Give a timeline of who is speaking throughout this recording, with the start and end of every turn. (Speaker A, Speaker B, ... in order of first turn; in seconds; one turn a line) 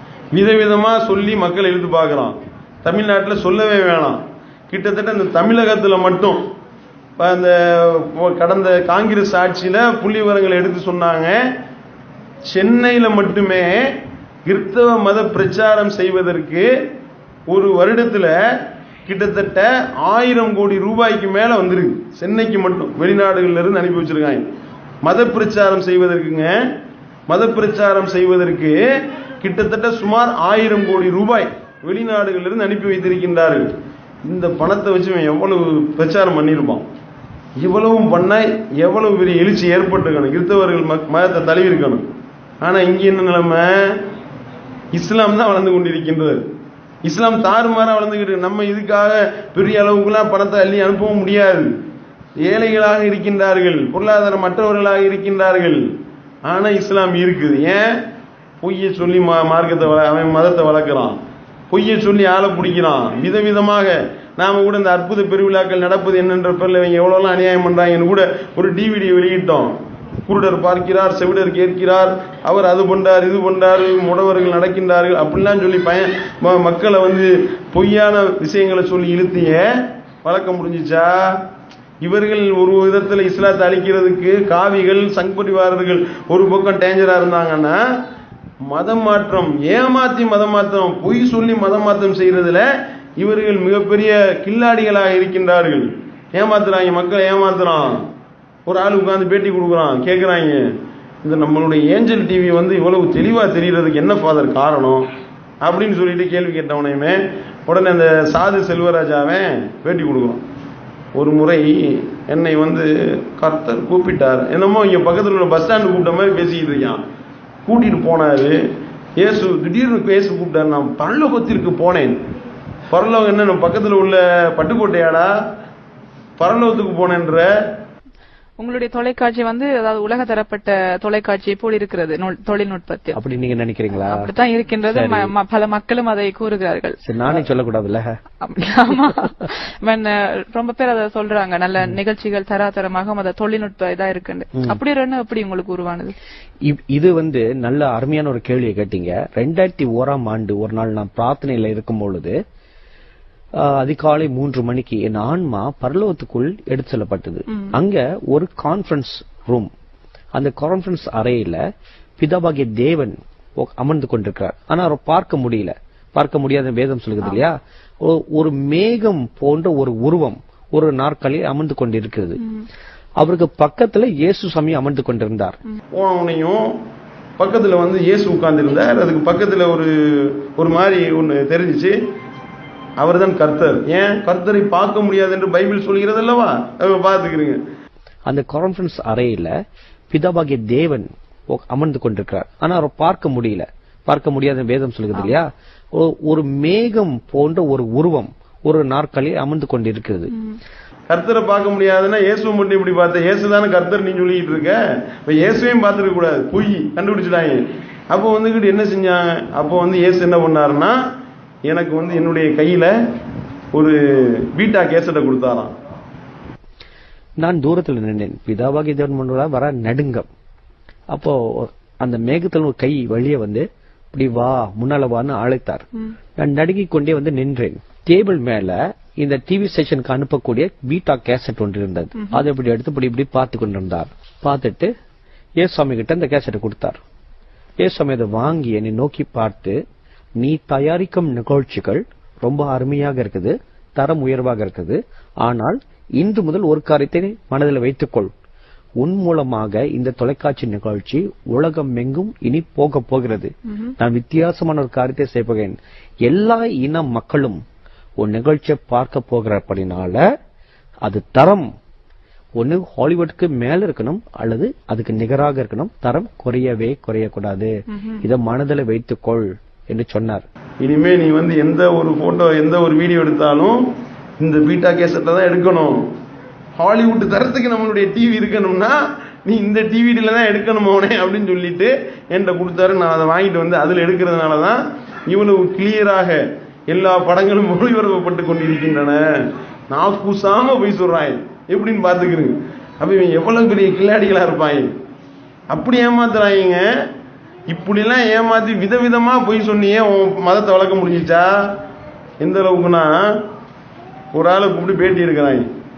Speaker A: 0.3-6.4
Speaker A: 7.2-11.4
Speaker A: 12.5-13.8
Speaker A: 14.4-16.7
Speaker A: 17.5-18.4
Speaker A: 19.1-24.4
Speaker A: 25.0-26.5
Speaker A: 27.3-28.8
Speaker A: 29.4-33.7
Speaker A: 34.2-36.8
Speaker A: 37.6-42.0
Speaker A: 42.6-44.0
Speaker A: 44.9-46.4
Speaker A: 47.0-51.7
Speaker A: 52.4-55.8
Speaker A: 56.5-57.8
Speaker A: 58.6-61.1
Speaker A: 61.7-69.7
Speaker A: 70.3-79.6
Speaker A: 80.2-81.4
Speaker A: 82.0-87.8
Speaker A: 88.7-92.6
Speaker A: 93.2-98.0
Speaker A: 98.7-100.6
Speaker A: 101.2-105.1
Speaker A: 105.6-110.4
Speaker A: 111.1-117.0
Speaker A: 117.7-118.6
Speaker A: 119.2-122.2
Speaker A: 122.9-125.3
Speaker A: 126.4-127.5
Speaker B: 128.6-133.2
Speaker C: 133.1-134.3
Speaker B: 133.9-136.9
Speaker C: 134.9-135.3
Speaker C: 137.0-138.1
Speaker B: 138.4-146.1
Speaker C: 144.5-144.8
Speaker C: 146.6-152.3
Speaker C: 153.6-159.7
Speaker C: 160.3-161.6
Speaker C: 162.2-172.4
Speaker C: 173.2-175.6
Speaker A: 175.9-176.7
Speaker A: 177.4-181.9
Speaker A: 183.0-187.6
Speaker C: 188.3-189.5
Speaker C: 190.1-200.3
Speaker A: 201.1-211.0
Speaker A: 211.7-212.9
Speaker A: 213.7-215.7
Speaker C: 217.4-220.3
Speaker C: 221.1-225.8
Speaker C: 226.4-234.9
Speaker B: 232.1-232.4
Speaker C: 235.6-237.0
Speaker C: 237.8-239.8
Speaker C: 240.4-248.3
Speaker C: 249.0-257.6
Speaker C: 258.2-260.2
Speaker C: 261.0-261.7
Speaker C: 262.6-270.4
Speaker A: 270.8-273.8
Speaker A: 274.4-276.0
Speaker A: 276.8-289.2
Speaker A: 289.9-294.9
Speaker A: 295.7-296.8
Speaker A: 297.7-301.5
Speaker A: 302.4-303.2
Speaker A: 304.3-305.6